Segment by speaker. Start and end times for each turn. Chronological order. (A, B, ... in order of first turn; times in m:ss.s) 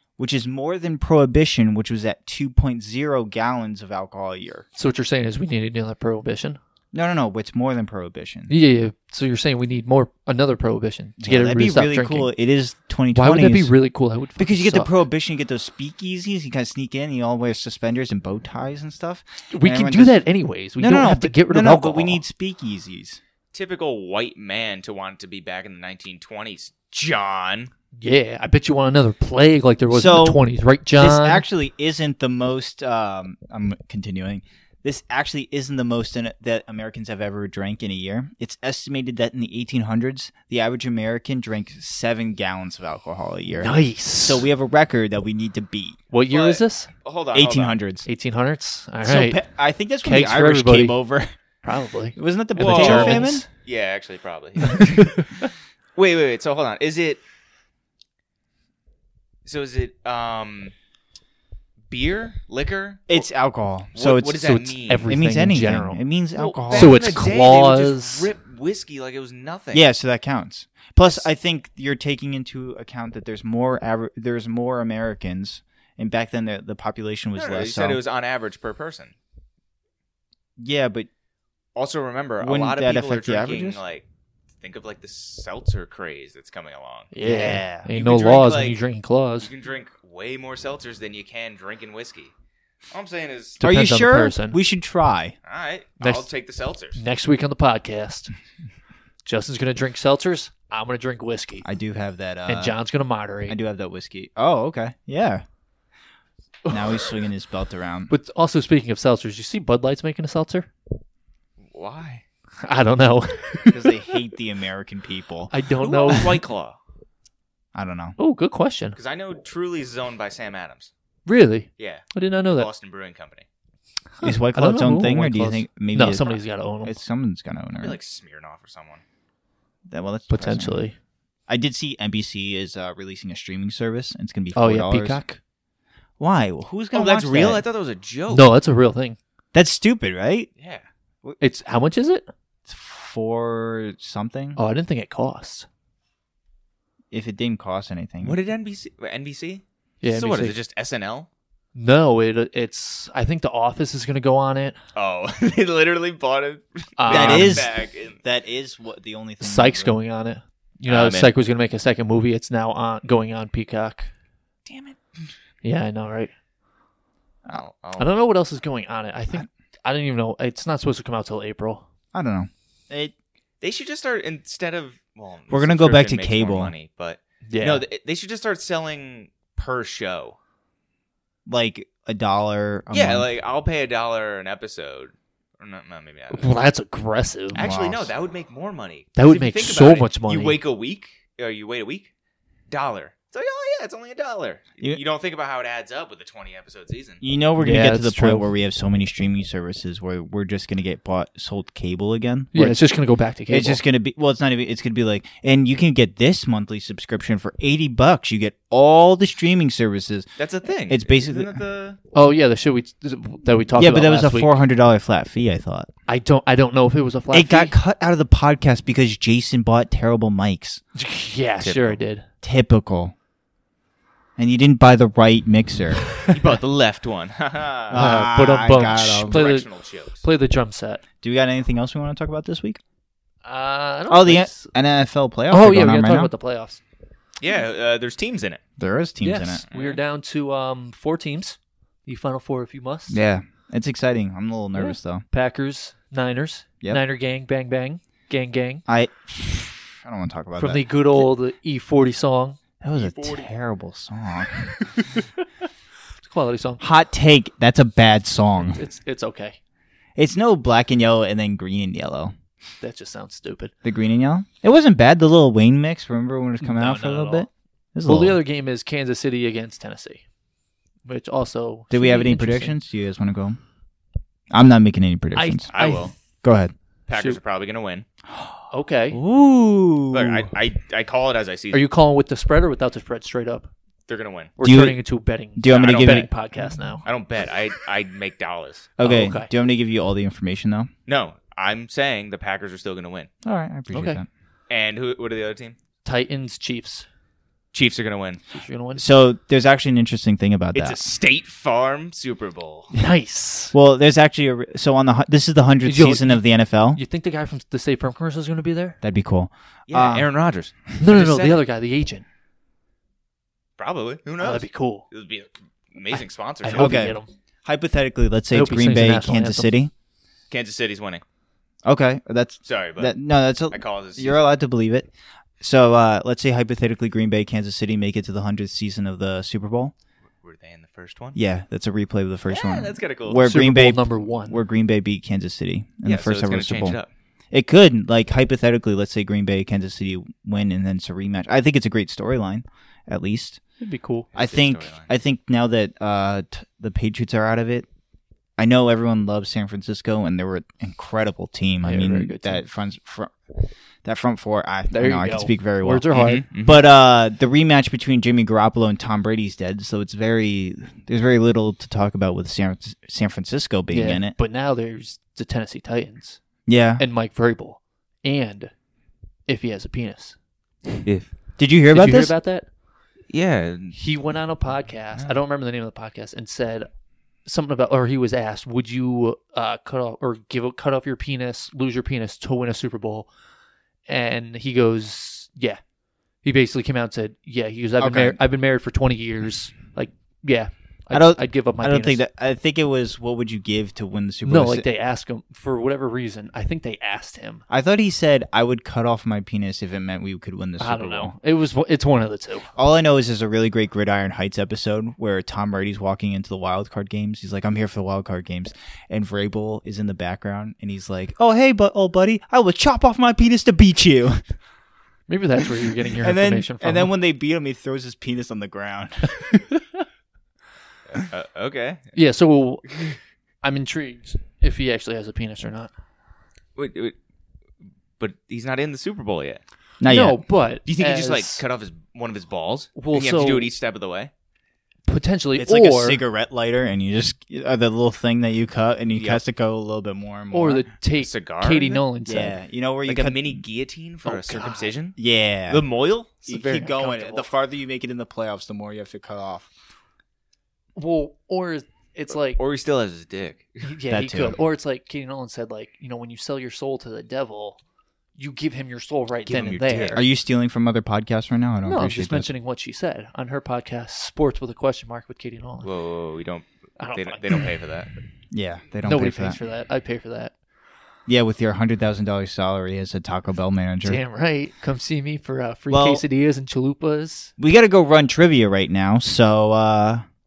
0:00.2-0:04.7 A
0:04.8-0:06.6 B
0:06.9-0:08.5 A
0:08.5-0:12.3 B
0:11.2-0:13.7 A
0:13.1-0:15.0 B
0:14.4-0:20.2 A
0:19.5-0:22.2 B
0:20.8-0:23.2 A
0:23.5-0:27.7 C
0:28.0-0:31.4 B
0:29.9-0:30.4 A
0:30.9-0:46.0 A
0:43.6-0:44.5 B
0:46.1-0:46.9 B
0:46.3-0:47.8 C
0:47.3-0:48.1 A
0:48.1-0:49.5 B
0:49.0-0:51.3 A
0:50.0-0:51.0 B
0:51.6-0:53.5 B
0:52.2-0:53.5 A
0:52.6-0:55.2 C
0:54.7-0:55.3 B
0:56.0-0:57.2 C
0:59.4-1:00.7 C
1:01.9-1:03.3 C
1:03.1-1:07.2 A
1:03.9-1:05.1 C
1:04.9-1:06.0 B
1:06.4-1:09.8 C
1:06.7-1:08.3 B
1:09.7-1:18.0 A
1:17.4-1:19.2 C
1:20.6-1:21.1 A
1:21.8-1:24.1 C
1:22.4-1:23.8 A
1:24.6-1:27.1 C
1:27.1-1:29.5 B
1:27.2-1:27.9 A
1:27.9-1:28.8 C
1:29.4-1:32.3 C
1:32.9-1:33.6 C
1:33.6-1:34.6 B
1:33.6-1:35.4 A
1:35.4-1:37.0 C
1:36.0-1:36.3 B
1:36.9-1:38.3 B
1:39.3-1:41.6 B
1:41.6-1:42.8 A
1:42.5-1:43.6 B
1:43.5-1:45.4 A
1:46.7-1:47.2 B
1:46.7-1:48.1 A
1:48.1-1:50.7 B
1:51.6-1:52.2 C
1:52.6-1:54.2 B
1:53.7-1:55.5 A
1:55.5-1:56.4 B
1:55.8-1:56.8 C
1:57.8-1:58.2 A
1:58.2-1:59.0 B
1:59.0-2:00.9 C
2:01.3-2:02.7 B
2:01.8-2:03.5 C
2:04.2-2:07.0 B
2:04.2-2:08.0 A
2:07.8-2:09.0 C
2:09.9-2:10.8 A
2:10.3-2:11.0 B
2:11.5-2:15.2 A
2:14.5-2:15.4 B
2:16.2-2:17.6 A
2:16.9-2:18.5 C
2:18.3-2:19.2 B
2:19.5-2:20.5 A
2:20.6-2:20.8 C
2:21.4-2:22.3 B
2:22.7-2:24.6 A
2:24.6-2:25.7 B
2:27.1-2:28.4 A
2:28.2-2:31.3 C
2:30.0-2:30.6 B
2:31.8-2:34.8 B
2:35.0-2:38.2 C
2:37.0-2:37.7 B
2:37.1-2:40.0 A
2:39.4-2:44.1 B
2:40.9-2:41.3 C
2:44.7-2:45.0 C
2:45.6-2:46.3 B
2:47.5-2:48.1 C
2:48.0-2:51.8 B
2:52.1-2:53.1 A
2:53.6-3:00.4 C
2:55.5-2:56.7 A
2:57.5-2:57.8 B
3:01.5-3:03.3 A
3:02.9-3:06.5 C
3:06.3-3:07.6 B
3:07.5-3:12.1 C
3:07.5-3:08.1 A
3:09.2-3:10.6 B
3:12.7-3:17.2 C
3:17.2-3:22.8 A
3:17.6-3:18.5 B
3:22.5-3:23.8 B
3:23.5-3:30.3 A
3:30.4-3:32.0 C
3:30.9-3:31.6 A
3:32.1-3:34.6 B
3:33.8-3:35.9 A
3:36.1-3:37.8 B
3:37.3-3:40.8 A
3:41.0-3:42.3 B
3:41.6-3:42.0 C
3:42.4-3:43.1 A
3:44.4-3:46.1 A
3:46.3-3:48.0 C
3:47.9-3:49.4 A
3:47.9-3:51.0 B
3:48.7-3:50.2 C
3:51.2-3:52.8 A
3:53.4-3:54.7 B
3:54.1-3:56.3 A
3:55.5-3:56.8 B
3:57.4-3:58.6 C
3:58.8-3:59.6 A
3:59.2-4:03.2 B
3:59.7-4:00.0 C
4:03.1-4:05.2 A
4:04.8-4:08.8 B
4:08.9-4:10.9 A
4:10.6-4:13.5 B
4:12.8-4:14.9 A
4:14.8-4:15.3 B
4:16.2-4:16.8 B
4:16.8-4:18.8 A
4:18.6-4:19.6 B
4:20.2-4:22.3 A
4:22.8-4:23.7 B
4:23.8-4:28.4 A
4:26.6-4:27.5 B
4:28.1-4:30.2 B
4:31.1-4:32.8 B
4:31.9-4:33.6 A
4:34.5-4:35.7 A
4:35.4-4:36.1 B
4:35.7-4:36.1 C
4:36.4-4:36.7 A
4:37.1-4:38.1 C
4:37.1-4:37.4 B
4:38.7-4:39.2 B
4:39.1-4:40.5 A
4:40.1-4:41.8 C
4:41.7-4:43.7 B
4:44.1-4:44.6 C
4:44.6-4:47.0 B
4:44.6-4:45.0 A
4:45.6-4:47.0 A
4:45.7-4:46.3 C
4:47.0-4:48.9 C
4:49.0-4:50.9 A
4:49.0-4:49.5 B
4:51.1-4:53.3 C
4:53.4-4:54.3 A
4:53.9-4:54.2 B
4:54.7-4:55.8 C
4:56.0-4:57.1 B
4:57.7-4:58.4 C
4:58.5-4:59.0 B
4:59.0-5:01.1 A
5:00.8-5:02.9 C
5:02.9-5:03.7 B
5:03.7-5:07.0 A
5:05.8-5:09.0 B
5:09.0-5:10.3 A
5:09.9-5:11.6 C
5:11.0-5:12.2 B
5:13.8-5:17.1 C
5:14.4-5:15.1 B
5:16.6-5:17.3 B
5:16.8-5:19.9 A
5:18.5-5:19.7 B
5:20.5-5:21.2 C
5:21.8-5:29.9 A
5:22.6-5:23.1 C
5:23.7-5:24.4 C
5:30.4-5:31.4 C
5:31.4-5:37.0 A
5:32.5-5:33.5 C
5:33.4-5:34.6 B
5:36.0-5:37.1 C
5:37.5-5:43.6 A
5:43.8-5:44.3 B
5:44.3-5:45.1 C
5:44.4-5:47.9 A
5:48.6-5:53.5 A
5:51.8-5:52.6 B
5:54.0-6:04.4 A
5:54.9-5:56.4 B
5:56.1-5:56.8 C
6:03.9-6:06.4 B
6:06.7-6:07.0 A
6:07.0-6:08.7 B
6:09.5-6:10.4 B
6:11.0-6:11.3 C
6:11.6-6:12.3 A
6:11.9-6:12.7 B
6:13.3-6:14.0 C
6:13.9-6:16.9 B
6:17.5-6:23.3 B
6:24.1-6:25.8 B
6:26.4-6:32.2 B
6:28.0-6:28.4 A
6:31.1-6:34.9 A
6:34.4-6:37.6 B
6:37.7-6:41.4 A
6:40.8-6:42.7 B
6:42.8-6:54.4 A
6:55.3-6:57.1 B
6:56.1-6:59.6 A
6:59.7-7:00.0 B
7:01.2-7:02.1 C
7:02.1-7:05.9 B
7:06.8-7:07.2 C
7:08.2-7:09.6 C
7:10.0-7:10.4 A
7:10.0-7:11.6 B
7:10.9-7:14.3 C
7:13.0-7:13.7 B
7:15.1-7:16.2 B
7:15.6-7:20.9 A
7:19.1-7:19.4 C
7:20.5-7:22.6 B
7:21.2-7:22.0 C
7:22.2-7:23.6 A
7:23.1-7:25.2 C
7:24.2-7:24.9 B
7:25.2-7:25.8 A
7:25.7-7:26.4 C
7:26.5-7:27.5 B
7:26.5-7:29.7 A
7:31.0-7:32.6 B
7:32.6-7:33.9 C
7:33.8-7:37.8 B
7:34.1-7:34.6 A
7:38.4-7:40.2 B
7:39.5-7:40.2 C
7:40.1-7:42.5 A
7:41.8-7:45.9 B
7:45.8-7:48.1 C
7:47.0-7:47.8 B
7:48.5-7:49.6 A
7:49.0-7:50.5 B
7:51.3-7:54.2 A
7:54.0-7:57.5 B
7:55.9-7:56.2 A
7:57.6-8:00.2 A